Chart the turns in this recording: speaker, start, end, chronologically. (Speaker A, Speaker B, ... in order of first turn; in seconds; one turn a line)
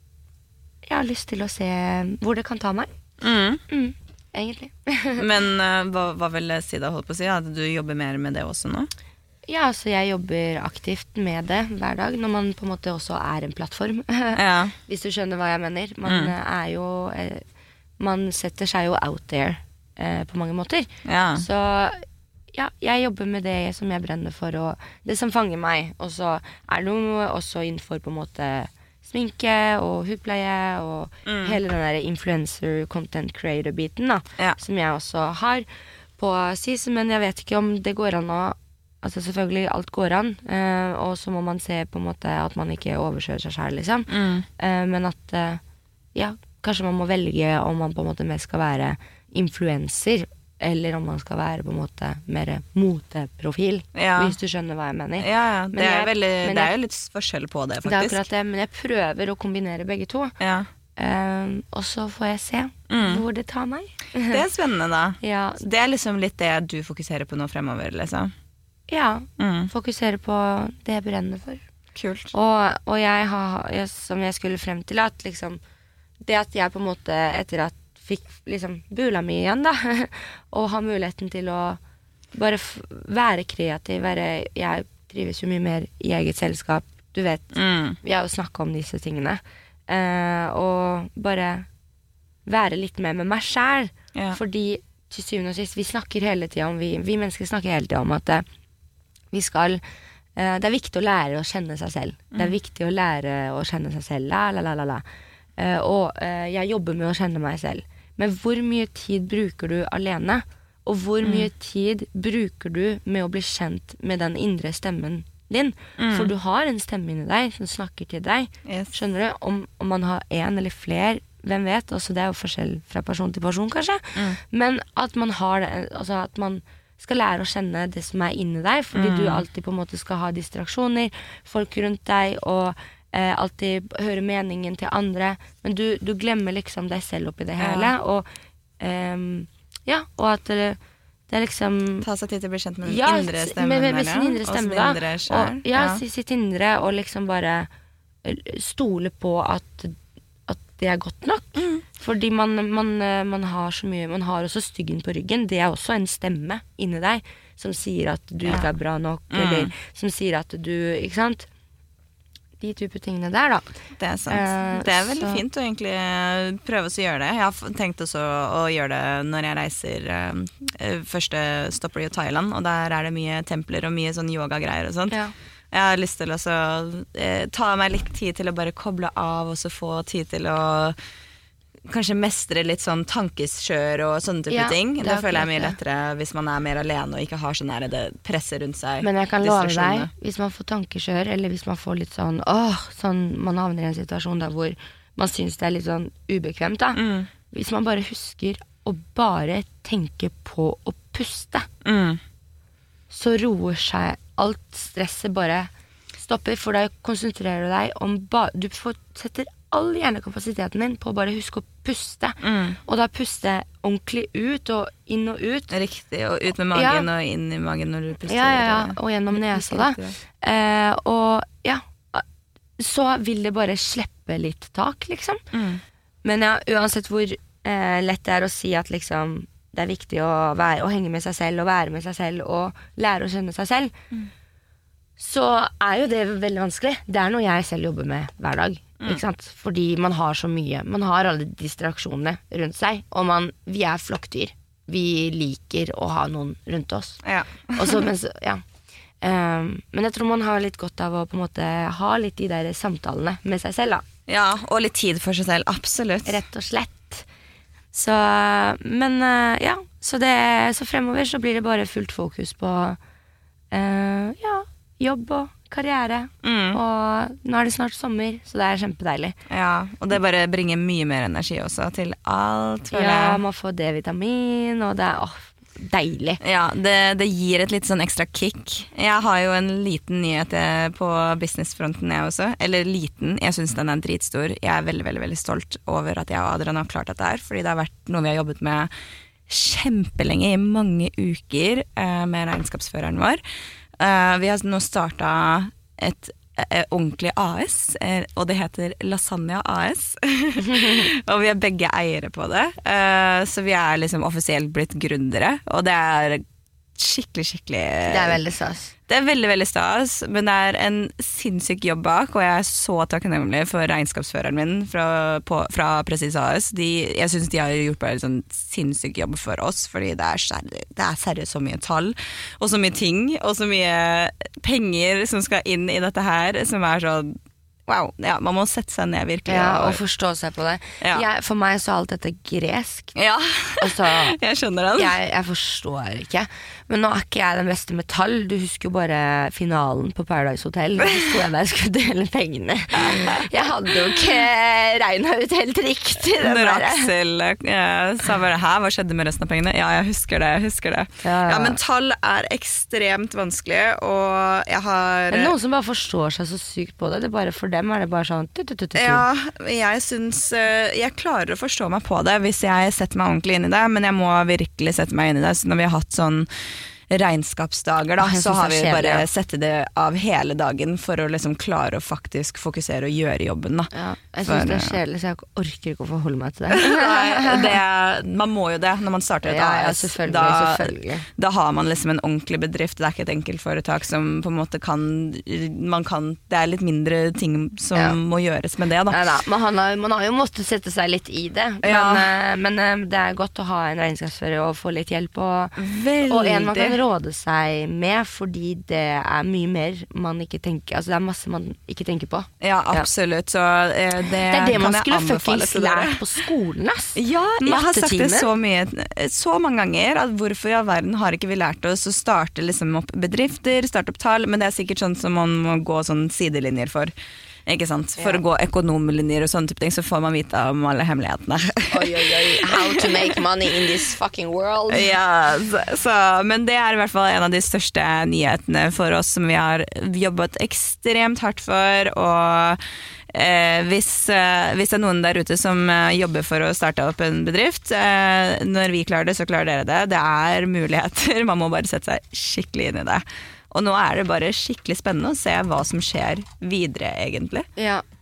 Speaker A: 0.9-2.9
Speaker B: 3.2-3.6
Speaker A: 3.7-5.3
Speaker B: 5.2-8.9
Speaker A: 9.5-17.4
Speaker B: 14.3-14.8
Speaker B: 16.1-16.3
Speaker A: 18.0-35.7
Speaker B: 21.1-21.5
Speaker B: 31.3-31.6
Speaker A: 36.2-45.6
Speaker B: 44.1-44.5
Speaker A: 46.1-56.7
Speaker B: 54.0-54.4
Speaker B: 55.2-58.3
Speaker A: 57.9-60.4
Speaker B: 60.4-60.7
Speaker A: 61.0-64.4
Speaker B: 62.9-63.2
Speaker B: 64.3-68.3
Speaker A: 65.2-65.7
Speaker A: 68.9-71.6
Speaker B: 69.4-69.7
Speaker B: 71.9-72.3
Speaker A: 72.3-75.6
Speaker A: 76.2-81.8
Speaker A: 82.3-91.7
Speaker B: 87.5-88.0
Speaker A: 92.5-98.5
Speaker A: 99.3-99.8
Speaker A: 100.4-105.0
Speaker A: 105.6-138.3
Speaker B: 111.2-111.5
Speaker B: 116.0-116.3
Speaker B: 118.7-119.0
Speaker B: 128.9-129.4
Speaker B: 137.6-137.9
Speaker A: 138.8-140.8
Speaker A: 141.3-142.1
Speaker B: 142.0-146.0
Speaker A: 142.9-147.7
Speaker A: 148.2-161.5
Speaker B: 151.6-151.8
Speaker B: 159.3-159.7
Speaker A: 162.6-163.7
Speaker B: 164.0-175.2
Speaker A: 164.3-165.4
Speaker B: 175.7-181.0
Speaker B: 181.9-190.1
Speaker A: 184.5-185.8
Speaker A: 189.0-201.7
Speaker B: 196.9-197.3
Speaker B: 201.8-202.2
Speaker A: 203.1-215.7
Speaker B: 212.4-212.8
Speaker B: 215.7-220.2
Speaker A: 216.7-217.1
Speaker A: 218.3-222.2
Speaker A: 222.8-225.4
Speaker B: 225.5-225.8
Speaker A: 226.2-233.9
Speaker A: 235.2-247.2
Speaker B: 247.2-248.1
Speaker A: 247.8-248.6
Speaker A: 249.2-254.0
Speaker B: 254.3-256.4
Speaker A: 256.3-257.3
Speaker A: 257.9-263.0
Speaker A: 263.7-269.4
Speaker B: 266.4-266.8
Speaker B: 269.5-273.4
Speaker A: 272.9-276.4
Speaker B: 276.4-288.9
Speaker B: 289.5-293.4
Speaker B: 294.0-306.4
Speaker A: 300.6-301.1
Speaker B: 307.0-308.4
Speaker A: 308.1-308.9
Speaker B: 309.1-327.4
Speaker B: 327.9-330.0
Speaker A: 329.5-333.1
Speaker B: 333.1-335.1
Speaker A: 333.8-334.4
Speaker A: 335.0-347.1
Speaker B: 343.0-344.2
Speaker B: 346.4-355.5
Speaker A: 351.2-351.8
Speaker A: 355.3-359.2
Speaker B: 358.9-373.9
Speaker A: 368.2-369.3
Speaker A: 373.9-377.8
Speaker B: 374.4-375.0
Speaker B: 376.7-389.2
Speaker A: 379.4-381.3
Speaker A: 389.1-403.1
Speaker B: 391.8-392.3
Speaker B: 395.8-397.0
Speaker B: 402.6-406.4
Speaker A: 404.5-408.5
Speaker B: 407.1-417.1
Speaker B: 417.7-423.2
Speaker A: 418.2-418.4
Speaker A: 421.9-425.1
Speaker B: 424.9-447.7
Speaker A: 447.8-448.0